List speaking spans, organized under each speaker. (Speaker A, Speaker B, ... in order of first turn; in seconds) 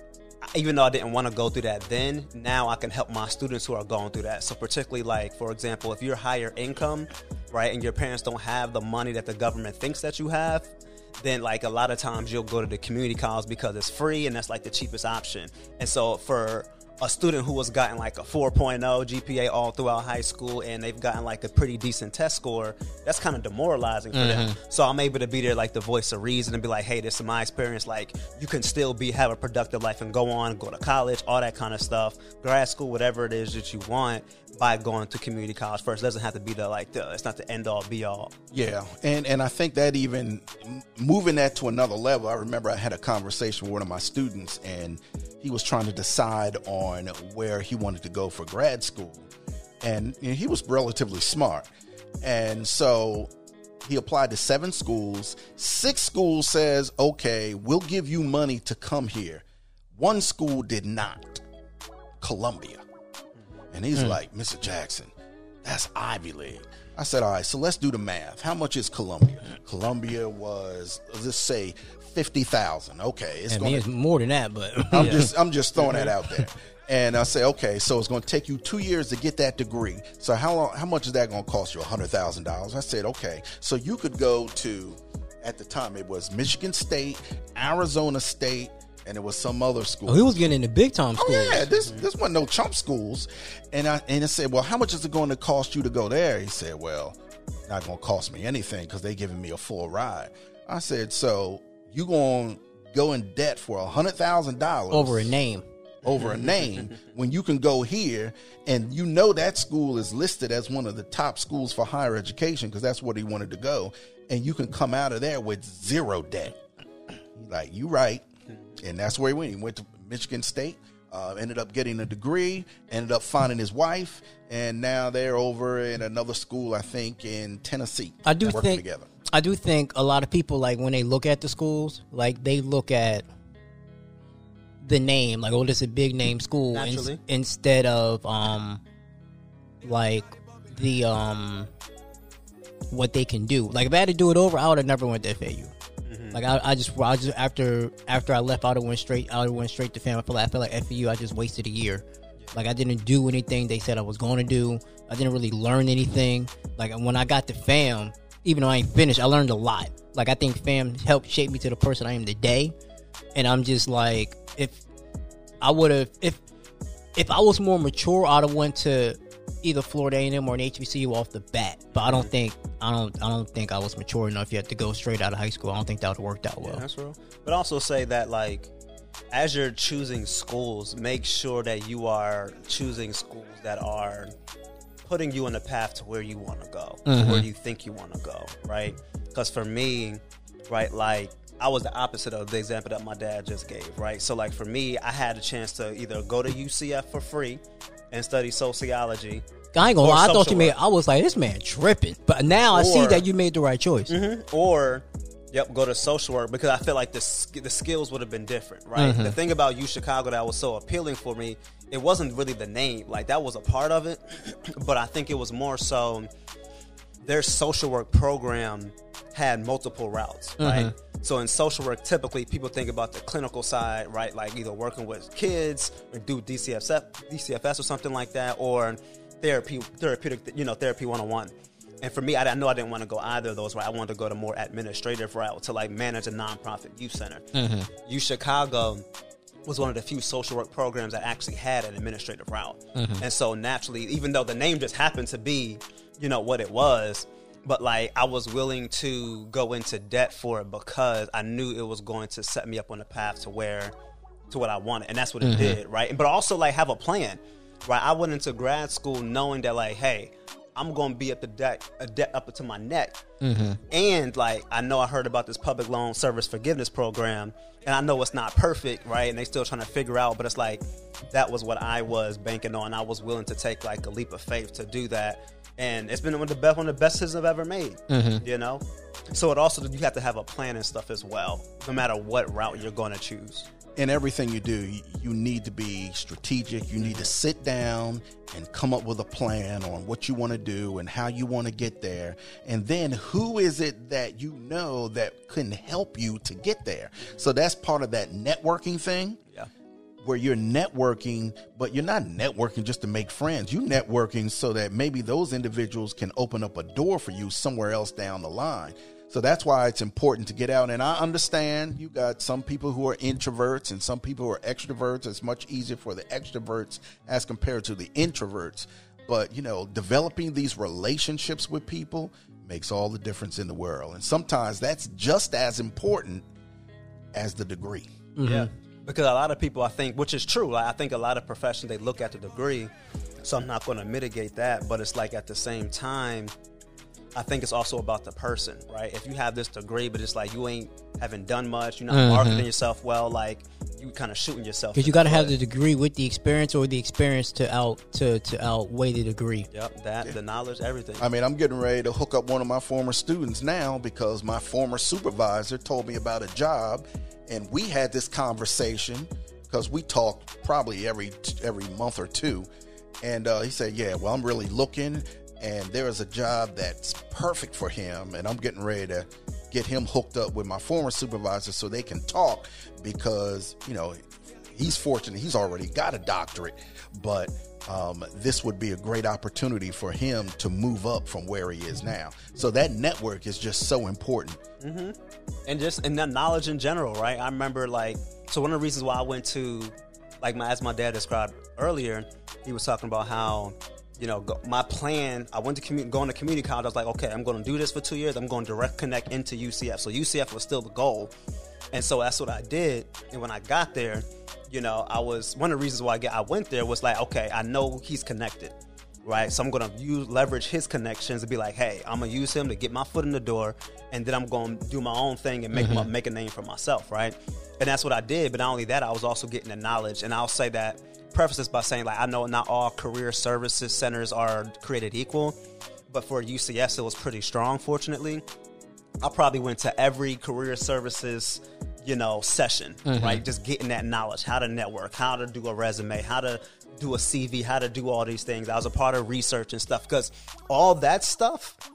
Speaker A: 0.4-38.3, 75.8-76.1, 136.7-137.2, 146.1-146.4, 172.0-172.3, 176.6-178.7, 179.3-184.3, 185.0-199.4, 200.0-200.8, 202.8-203.2, 204.1-216.3, 217.2-237.5, 238.1-239.1, 239.7-253.9, 254.5-263.2, 263.9-283.7, 287.0-287.3, 328.4-332.9, 333.4-336.5, 337.4-345.5, 349.7-351.3, 384.8-401.3, 401.9-425.6, 426.1-428.4, 429.2-441.8
Speaker B: 24.1-24.6, 73.5-75.3, 90.1-91.7, 104.9-105.7, 128.3-133.2, 134.8-138.8, 139.8-141.7, 142.9-145.7, 146.3-162.8, 163.4-164.8, 165.6-166.4, 167.2-176.8, 187.1-187.5, 199.7-204.1, 209.0-209.4, 220.6-220.9, 237.5-237.9, 243.0-243.2, 255.4-255.8, 263.4-263.8, 278.1-278.4, 328.4-328.7, 342.1-342.6, 345.0-349.7, 415.7-416.1, 433.1-433.4
Speaker C: 38.5-49.3, 49.8-51.7, 52.2-53.3, 53.8-61.4, 62.2-62.8, 63.7-65.1, 65.6-73.8, 74.9-90.4, 91.2-105.4, 106.0-116.6, 117.4-118.3, 118.8-129.1, 283.9-299.4, 300.2-326.5, 327.3-328.1, 351.2-362.7, 363.2-384.6